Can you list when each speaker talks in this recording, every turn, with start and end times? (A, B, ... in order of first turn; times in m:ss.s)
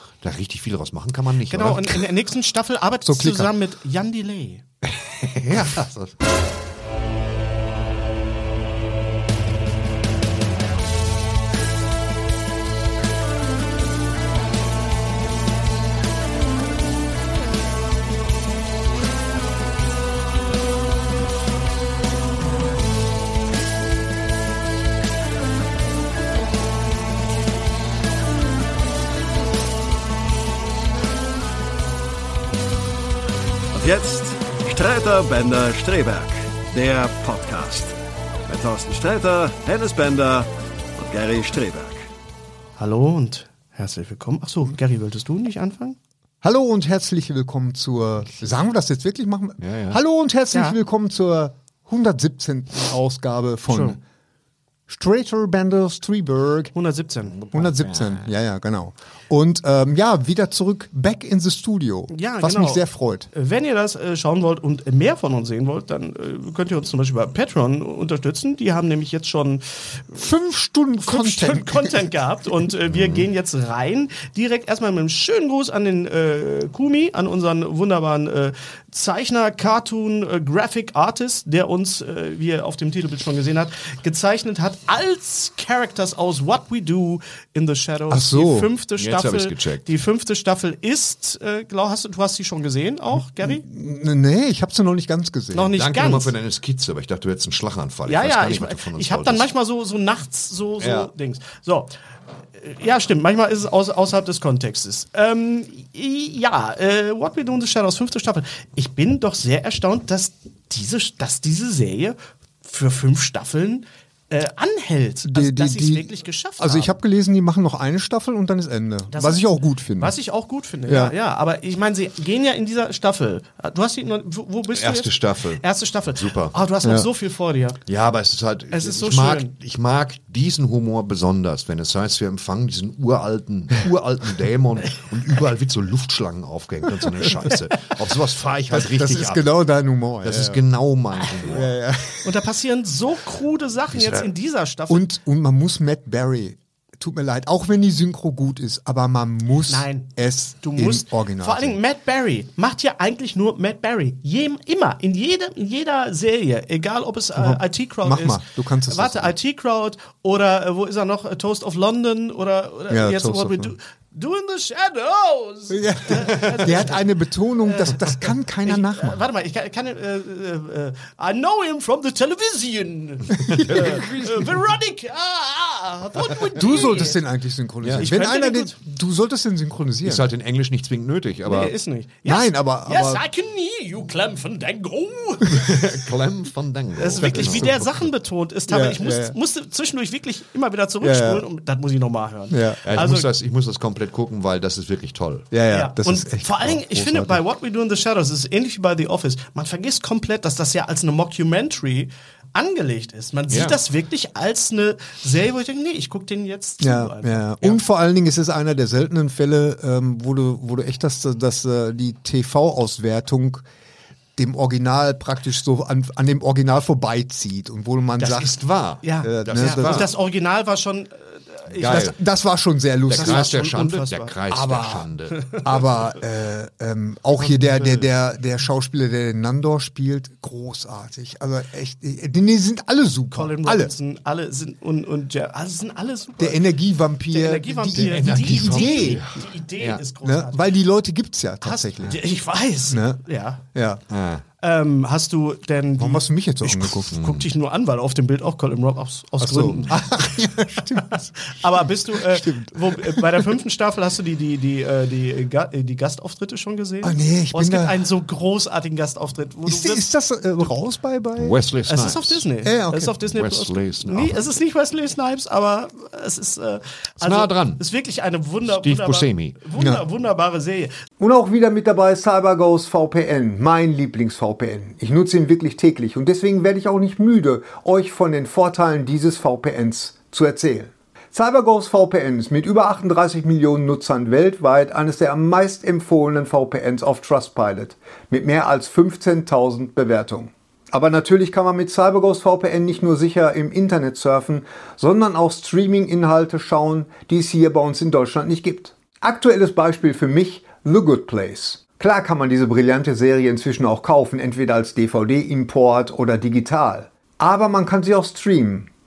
0:00.2-0:02.0 A
0:01.5-0:04.6 B
0:03.0-0:03.5 C
0:05.0-0:06.1 A
0:33.7-0:38.0 D
0:38.5-0:42.1 D
0:42.8-0:46.0 B
0:46.4-0:54.0 C
0:49.6-0:50.0 A
0:53.7-0:54.0 B
0:54.9-0:56.7 C
0:56.8-0:57.4 B
0:57.4-0:58.3 A
0:57.5-1:03.3 C
1:02.1-1:10.0 B
1:10.1-1:12.0 C
1:11.0-1:33.6 B
1:12.9-1:13.2 A
1:28.1-1:28.7 C
1:29.0-1:29.9 A
1:33.4-1:35.7 C
1:35.5-1:36.3 B
1:35.8-1:39.5 A
1:38.1-1:41.9 B
1:40.8-1:41.1 A
1:42.6-1:56.9 B
1:55.2-2:00.2 C
1:59.1-1:59.4 B
2:00.0-2:07.8 B
2:00.9-2:01.2 C
2:04.7-2:06.5 A
2:07.9-2:19.5 A
2:08.7-2:09.5 B
2:18.7-2:20.6 C
2:20.2-2:21.7 A
2:21.5-2:22.4 C
2:22.2-2:25.1 B
2:23.9-2:24.3 A
2:24.9-2:31.8 C
2:29.7-2:30.1 B
2:30.6-2:57.2 B
2:37.3-2:39.3 C
2:42.9-2:43.7 C
2:45.7-2:49.2 C
2:46.3-2:46.8 A
2:53.4-2:54.3 C
2:53.5-2:54.0 A
2:56.5-3:00.2 C
2:57.8-2:58.1 A
2:57.9-2:58.8 B
3:00.0-3:01.8 A
3:01.5-3:06.0 B
3:02.2-3:03.2 C
3:05.5-3:08.0 A
3:07.0-3:13.3 B
3:07.2-3:07.9 C
3:08.7-3:09.4 C
3:11.0-3:11.4 C
3:12.5-3:12.8 C
3:12.8-3:15.5 A
3:15.5-3:17.4 C
3:15.7-3:27.8 B
3:23.5-3:23.8 A
3:26.8-3:33.6 C
3:34.4-3:38.6 C
3:38.2-3:40.1 A
3:39.0-3:42.1 B
3:39.3-3:40.1 C
3:41.8-3:42.2 A
3:41.9-3:43.5 C
3:43.1-3:45.4 A
3:43.1-3:44.3 B
3:44.5-3:45.1 C
3:45.3-3:45.6 B
3:45.6-3:53.9 C
3:47.4-3:48.1 B
3:53.3-3:56.6 B
3:56.4-3:59.2 C
3:57.3-4:00.6 B
3:57.9-4:00.0 A
4:00.2-4:02.2 C
4:01.6-4:03.6 B
4:02.9-4:03.2 C
4:03.7-4:04.0 C
4:04.1-4:04.4 A
4:04.6-4:10.2 B
4:06.0-4:07.1 C
4:07.1-4:07.5 A
4:09.4-4:13.4 C
4:11.1-4:20.0 B
4:17.0-4:18.0 C
4:19.6-4:21.6 C
4:21.4-4:22.4 A
4:21.9-4:30.9 B
4:22.6-4:23.1 C
4:23.3-4:24.4 A
4:27.2-4:27.8 A
4:28.6-4:29.6 A
4:29.8-4:30.0 C
4:31.2-5:08.9 C